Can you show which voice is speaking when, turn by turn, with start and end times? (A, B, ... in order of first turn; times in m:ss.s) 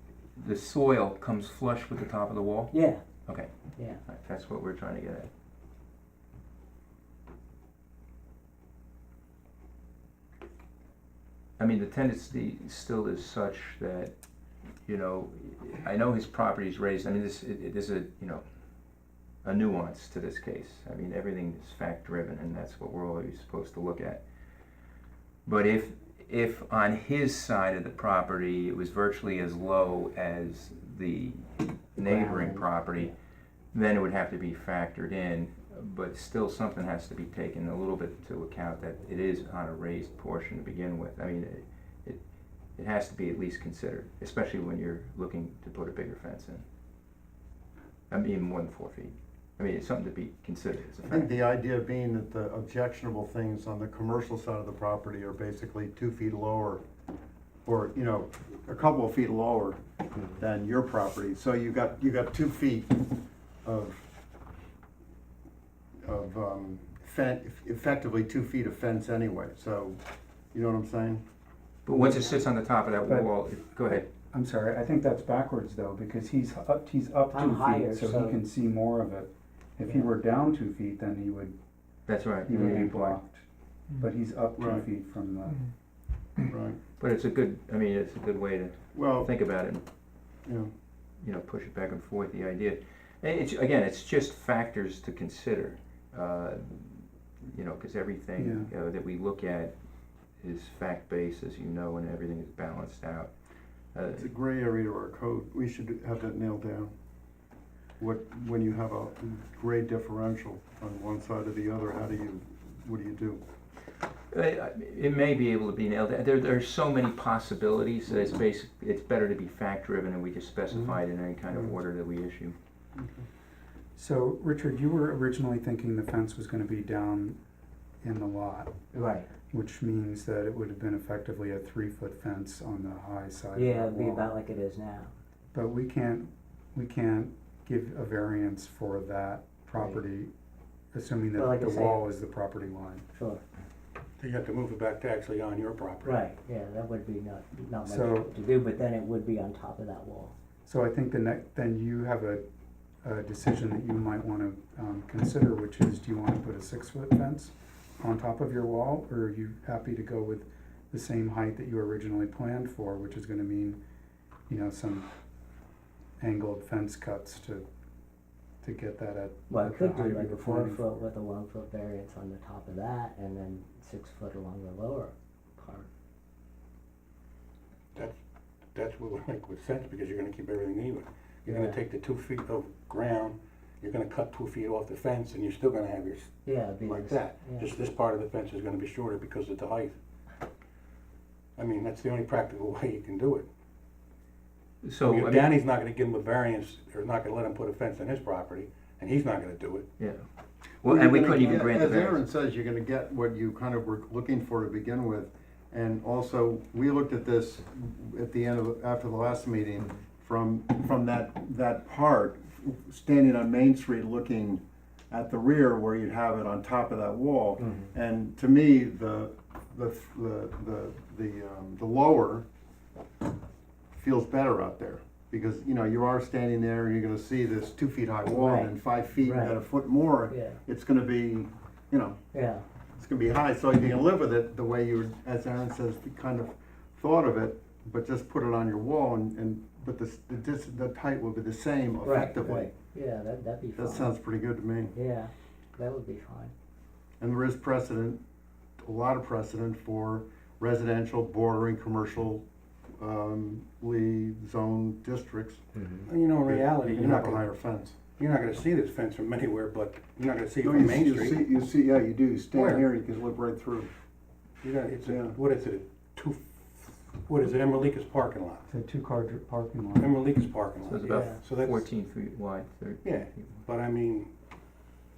0:00.4-0:02.8 A
0:02.7-0:03.0 B
0:04.0-0:05.3 A
0:11.6-0:14.1 A
0:14.8-0:18.4 A
0:19.4-0:24.2 A
0:25.5-0:33.1 A
0:32.0-0:33.1 B
0:33.7-0:42.2 A
0:42.8-0:46.6 A
0:48.1-0:51.3 A
0:51.0-0:56.8 C
0:57.7-0:59.8 C
1:00.4-1:04.1 C
1:06.0-1:10.0 C
1:10.5-1:11.2 C
1:11.8-1:14.1 A
1:14.3-1:21.6 D
1:17.3-1:18.4 B
1:19.9-1:20.1 B
1:22.1-1:23.2 A
1:22.4-1:23.4 D
1:22.6-1:22.9 B
1:24.0-1:25.6 D
1:24.6-1:24.9 C
1:26.5-1:26.8 C
1:27.0-1:29.8 A
1:28.9-1:29.3 C
1:31.2-1:39.7 A
1:38.4-1:38.7 D
1:40.4-1:43.3 A
1:43.9-1:44.3 A
1:44.2-1:46.9 C
1:48.0-1:53.4 C
1:54.3-2:02.6 A
2:00.7-2:01.0 C
2:03.0-2:03.3 C
2:04.0-2:07.4 D
2:08.0-2:08.8 D
2:08.9-2:09.3 B
2:09.5-2:14.3 D
2:13.6-2:15.1 B
2:15.5-2:20.3 D
2:19.8-2:20.0 B
2:20.9-2:23.0 D
2:21.4-2:22.0 B
2:23.1-2:23.4 B
2:24.2-2:26.2 E
2:26.0-2:30.3 B
2:27.9-2:28.3 D
2:30.7-2:32.4 D
2:33.0-2:43.8 D
2:44.5-2:45.1 D
2:46.2-2:47.6 D
2:48.6-2:51.0 D
2:49.5-2:55.9 B
2:58.8-3:10.0 E
3:01.5-3:01.8 B
3:06.4-3:07.7 B
3:11.6-3:13.5 E
3:14.8-3:15.6 A
3:15.0-3:19.9 E
3:20.0-3:20.2 A
3:20.8-3:22.2 A
3:20.8-3:42.4 C
3:37.6-3:37.9 B
3:43.9-3:52.2 C
3:48.2-3:49.6 B
3:50.3-3:50.6 B
3:52.3-3:52.6 B
3:53.0-4:02.7 C
4:02.0-4:04.1 B
4:03.8-4:04.9 C
4:04.9-4:06.5 B
4:07.2-4:08.2 C
4:08.8-4:12.4 C
4:13.0-4:15.6 C
4:15.8-4:16.1 B
4:16.1-4:21.4 E
4:16.4-4:18.1 C
4:20.6-4:23.9 C
4:22.5-4:22.8 E
4:24.6-4:28.7 E
4:25.0-4:25.4 C
4:28.7-4:30.1 D
4:30.0-4:31.9 E
4:30.8-4:33.6 A
4:31.1-4:31.4 B
4:33.0-4:34.3 E